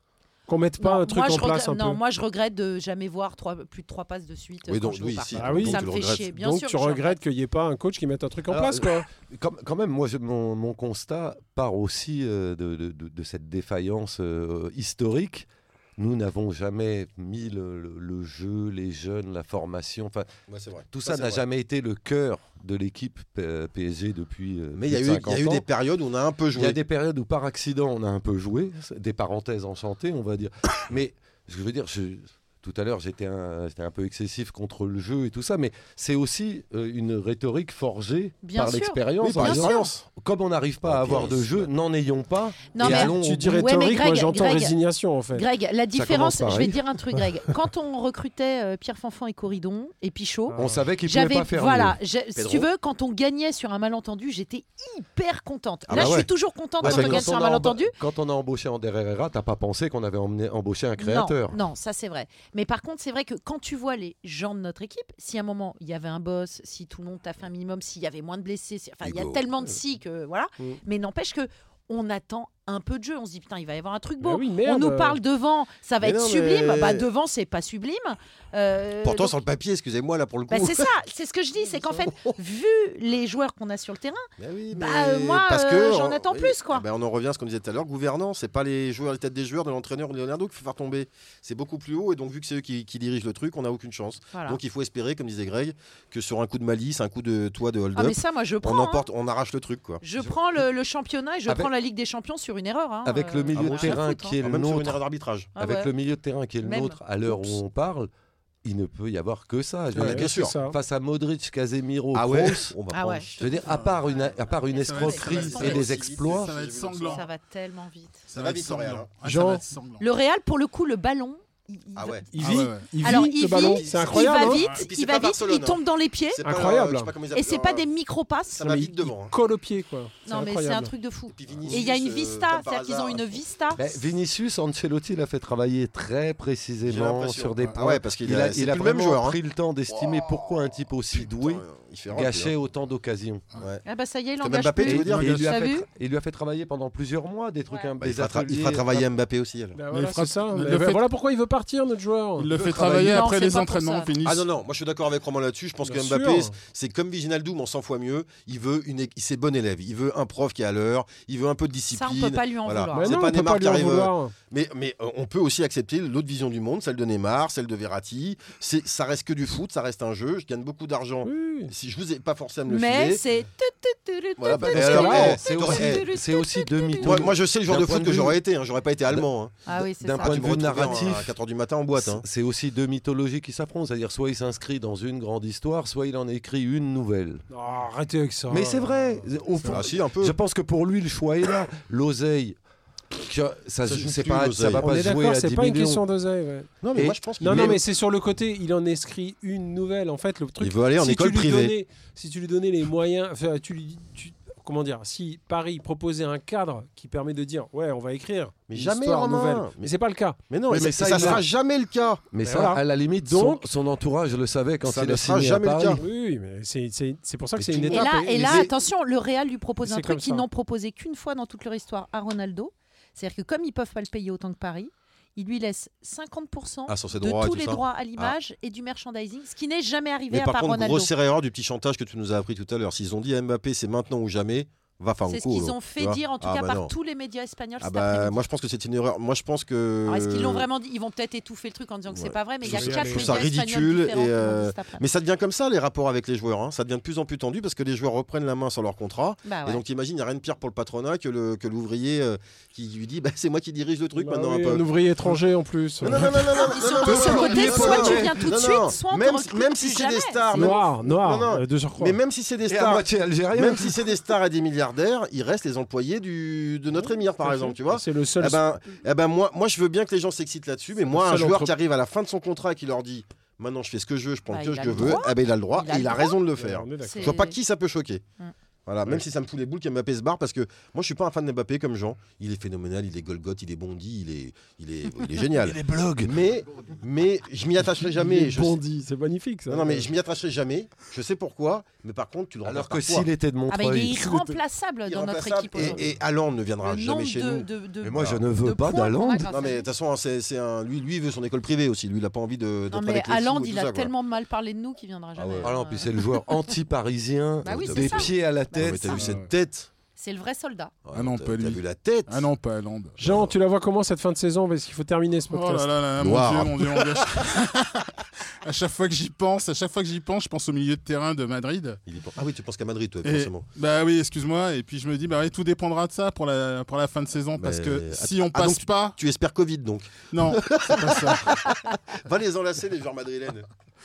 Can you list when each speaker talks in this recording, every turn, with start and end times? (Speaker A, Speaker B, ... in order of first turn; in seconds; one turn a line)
Speaker A: 0.5-2.0
Speaker B: 0.8-7.2
Speaker C: 4.7-6.3
Speaker A: 5.4-9.1
Speaker D: 8.5-20.3
Speaker C: 20.5-21.4
Speaker D: 20.9-25.7
Speaker C: 24.7-26.8
Speaker D: 26.5-43.6
Speaker B: 38.4-39.9
Speaker C: 39.2-40.0
Speaker C: 40.8-41.7
Speaker B: 42.7-44.7
Speaker A: 42.8-45.5
Speaker B: 45.3-57.9
Speaker D: 45.9-46.8
Speaker A: 50.5-50.8
Speaker D: 50.6-52.0
Speaker C: 52.4-52.7
Speaker C: 55.9-56.3
Speaker D: 55.9-56.3
Speaker C: 56.8-57.3
Speaker D: 56.8-61.6
Speaker B: 61.0-79.3
Speaker C: 69.0-69.4
Speaker A: 74.2-75.2
Speaker C: 76.0-77.0
Speaker C: 79.0-80.9
Speaker B: 80.5-86.8
Speaker C: 81.7-82.3
Speaker C: 84.4-100.0
Speaker B: 94.3-94.6
Speaker B: 98.0-99.0
Speaker B: 100.0-104.4
Speaker D: 103.0-105.0
Speaker C: 103.5-105.5
Speaker B: 105.5-105.9
Speaker D: 105.6-108.1
Speaker B: 106.6-107.6
Speaker D: 108.6-112.7
Speaker C: 110.0-110.5
Speaker A: 110.0-110.8
Speaker C: 112.1-113.6
Speaker B: 112.9-113.3
Speaker D: 113.4-116.5
Speaker B: 114.7-115.8
Speaker E: 114.8-117.2
Speaker C: 115.2-117.2
Speaker B: 117.1-118.2
Speaker E: 118.3-120.0
Speaker C: 118.3-119.1
Speaker A: 119.2-119.6
Speaker B: 120.0-126.4
Speaker C: 122.0-122.3
Speaker A: 122.3-124.7
Speaker E: 122.4-123.0
Speaker C: 123.1-125.8
Speaker E: 124.5-124.8
Speaker C: 126.3-127.9
Speaker A: 126.4-127.1
Speaker B: 127.3-128.7
Speaker C: 128.5-129.3
Speaker A: 128.6-130.9
Speaker B: 130.3-133.8
Speaker C: 131.3-133.4
Speaker D: 133.8-143.4
Speaker C: 136.9-139.4
Speaker C: 141.1-142.6
Speaker B: 143.8-145.9
Speaker C: 144.4-145.4
Speaker D: 144.8-149.1
Speaker E: 145.2-145.4
Speaker C: 148.0-149.8
Speaker A: 149.7-152.6
Speaker E: 149.9-151.1
Speaker E: 152.4-154.5
Speaker B: 152.7-154.1
Speaker C: 152.7-153.2
Speaker C: 154.2-173.2
Speaker A: 155.8-156.6
Speaker B: 161.9-163.3
Speaker A: 162.9-164.3
Speaker A: 171.2-171.7
Speaker B: 172.7-177.3
Speaker C: 174.4-176.1
Speaker D: 174.5-178.4
Speaker C: 177.0-179.6
Speaker D: 179.1-181.3
Speaker B: 179.7-180.6
Speaker C: 180.2-182.2
Speaker D: 181.9-187.4
Speaker A: 187.5-188.9
Speaker D: 188.5-192.6
Speaker C: 189.7-190.4
Speaker D: 193.1-196.0
Speaker C: 193.8-194.9
Speaker A: 194.8-196.7
Speaker C: 196.8-197.8
Speaker D: 196.9-197.8
Speaker A: 197.4-210.4
Speaker C: 200.6-201.7
Speaker C: 208.7-209.9
Speaker C: 210.5-212.3
Speaker D: 210.7-211.5
Speaker D: 212.3-216.0
Speaker A: 212.4-213.7
Speaker C: 214.8-216.0
Speaker A: 215.9-218.7
Speaker D: 217.6-218.7
Speaker B: 217.9-231.1
Speaker A: 219.8-220.4
Speaker C: 226.9-228.4
Speaker C: 230.3-236.9
Speaker B: 235.3-238.4
Speaker C: 237.8-240.7
Speaker B: 240.1-245.1
Speaker C: 242.1-254.9
Speaker A: 242.7-243.4
Speaker B: 249.4-249.8
Speaker A: 254.2-256.4
Speaker C: 256.0-278.2
Speaker B: 256.5-260.7
Speaker D: 257.0-258.5
Speaker A: 260.5-262.2
Speaker D: 262.7-264.1
Speaker A: 266.9-268.6
Speaker A: 271.0-271.7
Speaker B: 274.5-276.4
Speaker A: 276.6-277.3
Speaker B: 277.1-277.6
Speaker C: 278.9-288.8
Speaker D: 285.6-286.4
Speaker A: 288.0-290.1
Speaker C: 289.7-293.3
Speaker D: 292.6-294.6
Speaker B: 293.7-296.1
Speaker C: 295.1-298.4
Speaker B: 296.8-299.9
Speaker D: 298.0-299.5
Speaker C: 299.5-304.1
Speaker B: 302.9-306.6
Speaker C: 305.4-305.8
Speaker D: 305.6-309.3
Speaker B: 307.6-309.2
Speaker C: 307.6-309.9
Speaker B: 310.2-310.9
Speaker C: 311.1-312.5
Speaker E: 311.1-313.4
Speaker A: 313.2-315.9
Speaker E: 315.5-318.1
Speaker C: 316.2-317.5
Speaker E: 318.6-322.0
Speaker C: 322.1-323.7
Speaker E: 323.2-329.2
Speaker C: 327.6-333.7
Speaker E: 330.3-331.6